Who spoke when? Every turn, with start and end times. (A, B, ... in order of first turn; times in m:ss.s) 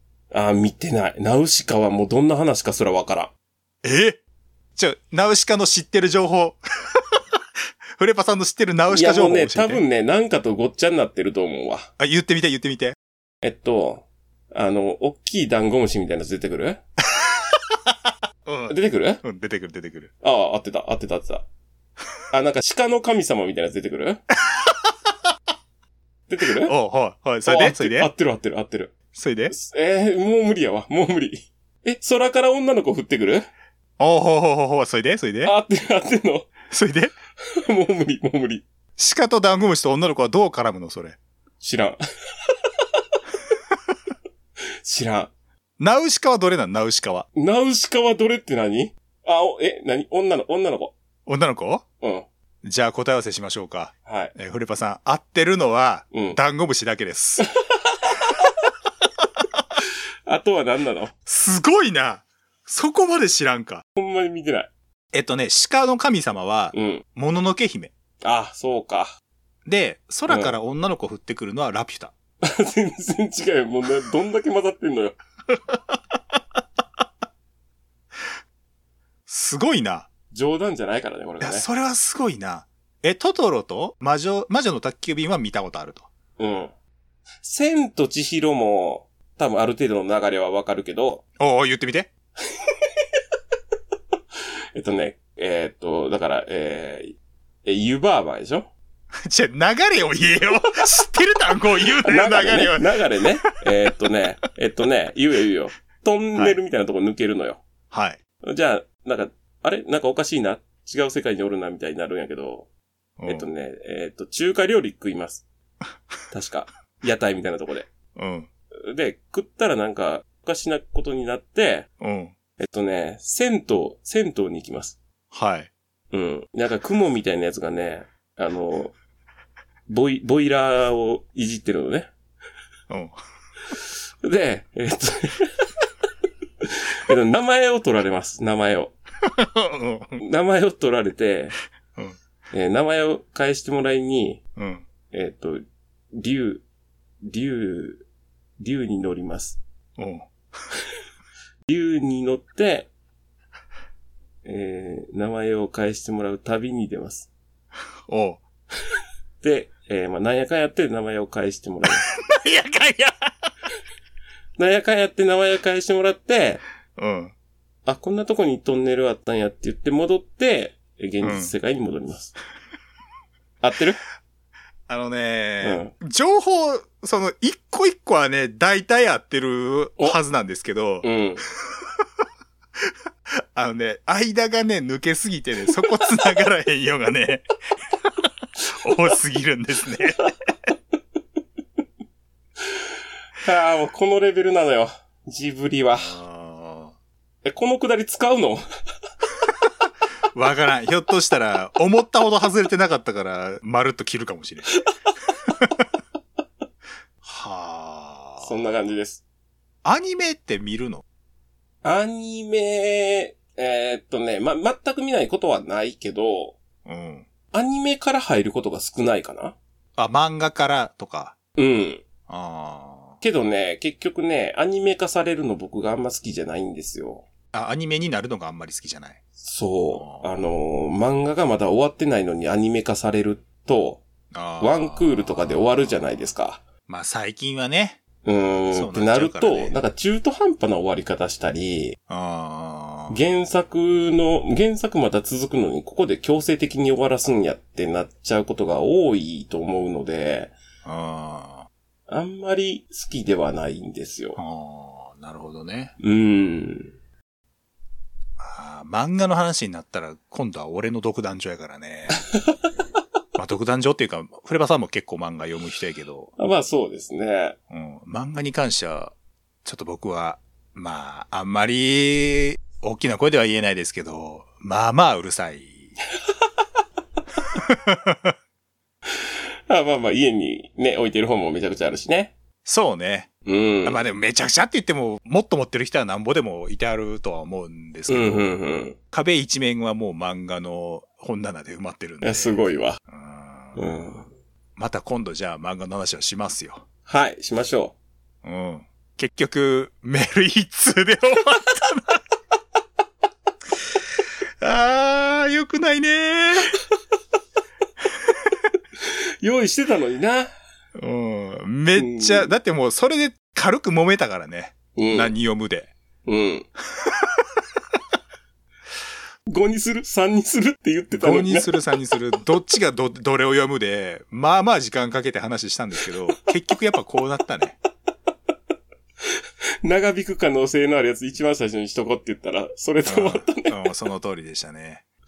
0:00.3-0:03.3 A
0:03.8-0:04.2 B
0:04.8-0:07.0 B
0:08.0-0:09.8 B
0:08.9-0:11.9 A
0:12.0-0:13.0 B
0:13.4-0:16.8 A
0:17.1-0:17.9 B
0:18.4-0:20.1 B
0:18.7-0:19.2 A
0:20.2-0:21.4 A
0:22.3-0:24.2 A
0:24.5-0:24.8 B
0:26.3-0:26.7 A
0:26.6-0:28.1 B
0:27.4-0:28.9 A
0:29.1-0:29.5 B
0:29.5-0:33.5 A
0:34.0-0:35.5 B
0:35.4-0:36.5 A
0:36.7-0:37.1 B
0:37.6-0:38.6 A
0:39.0-0:41.2 B
0:41.6-0:42.0 A
0:44.8-0:45.3 A
0:45.8-0:47.3 B
0:47.4-0:50.9 A
0:51.3-0:51.8 B
0:52.0-0:52.3 A
0:52.6-0:57.5 B
0:54.1-0:54.3 A
0:56.1-0:56.4 A
0:57.4-0:58.5 A
1:00.3-1:01.1 A
1:01.3-1:03.8 B
1:04.0-1:04.7 A
1:05.1-1:07.9 B
1:06.7-1:07.0 A
1:08.2-1:09.2 A
1:09.6-1:12.1 B
1:10.3-1:10.6 A
1:12.4-1:15.2 A
1:15.5-1:16.0 B
1:19.3-1:20.1 B
1:20.3-1:21.7 A
1:21.4-1:26.1 B
1:26.4-1:26.7 A
1:27.4-1:31.2 A
1:31.4-1:32.1 B
1:34.8-1:38.7 A
1:39.2-1:42.9 B
1:42.0-1:47.6 A
1:47.9-1:48.2 B
1:48.4-1:52.7 A
1:53.2-1:53.5 B
1:53.3-1:55.4 A
1:56.3-1:57.9 A
1:58.2-1:58.5 B
1:58.9-2:01.9 A
2:02.0-2:02.3 B
2:02.6-2:05.0 A
2:05.3-2:05.7 B
2:06.1-2:08.9 A
2:09.9-2:12.1 A
2:12.9-2:13.2 B
2:14.2-2:15.6 A
2:16.6-2:18.9 A
2:19.2-2:20.2 B
2:20.2-2:21.6 A
2:22.5-2:24.4 A
2:24.6-2:24.8 B
2:25.1-2:26.6 A
2:27.2-2:28.0 A
2:28.6-2:29.6 A
2:30.0-2:30.3 B
2:31.7-2:32.9 A
2:34.4-2:37.3 A
2:38.1-2:38.4 B
2:39.4-2:42.1 A
2:42.1-2:43.3 B
2:44.6-2:46.6 A
2:47.0-2:47.3 B
2:47.9-2:52.3 A
2:51.2-2:51.5 B
2:53.6-2:54.0 A
2:54.9-3:01.1 B
2:55.6-2:55.9 A
3:01.0-3:01.4 A
3:03.3-3:07.4 B
3:08.6-3:10.3 B
3:13.4-3:16.2 A
3:16.0-3:16.9 B
3:17.4-3:18.6 A
3:20.3-3:24.7 B
3:24.7-3:25.3 A
3:25.5-3:25.8 B
3:27.2-3:28.8 B
3:28.4-3:29.2 A
3:29.8-3:31.0 B
3:31.8-3:36.6 A
3:36.9-3:37.3 B
3:37.5-3:39.6 A
3:40.0-3:41.4 B
3:41.6-3:42.0 A
3:42.3-3:43.2 B
3:43.2-3:47.3 A
3:47.5-3:49.2 B
3:49.4-3:54.0 A
3:49.9-3:50.4 B
3:54.3-3:56.3 B
3:54.6-3:56.6 A
3:56.9-3:58.0 B
3:58.2-4:02.0 A
3:58.7-3:59.8 B
4:02.1-4:03.2 B
4:03.1-4:10.5 A
4:10.8-4:11.7 B
4:12.1-4:14.4 A
4:14.4-4:15.9 B
4:16.0-4:17.0 A
4:18.4-4:22.2 B
4:23.4-4:26.3 B
4:26.4-4:27.6 A
4:27.7-4:29.1 B
4:29.6-4:35.9 B
4:37.5-4:38.4 B
4:39.2-4:42.3 A
4:42.6-4:43.3 B
4:43.5-4:44.0 A
4:43.8-4:48.6 B
4:48.1-4:49.0 A
4:49.1-4:53.9 B
4:52.2-4:53.0 A
4:53.8-4:54.3 A
4:54.8-4:56.8 B
4:57.1-4:58.0 A
4:58.4-5:02.2 B
5:04.6-5:06.8 B
5:09.0-5:10.5 A
5:11.0-5:15.9 B
5:12.0-5:12.5 A
5:15.0-5:15.3 A
5:16.3-5:16.7 A
5:17.0-5:17.4 B
5:19.5-5:21.7 A
5:21.1-5:27.8 B
5:29.8-5:33.8 A
5:33.1-5:35.0 B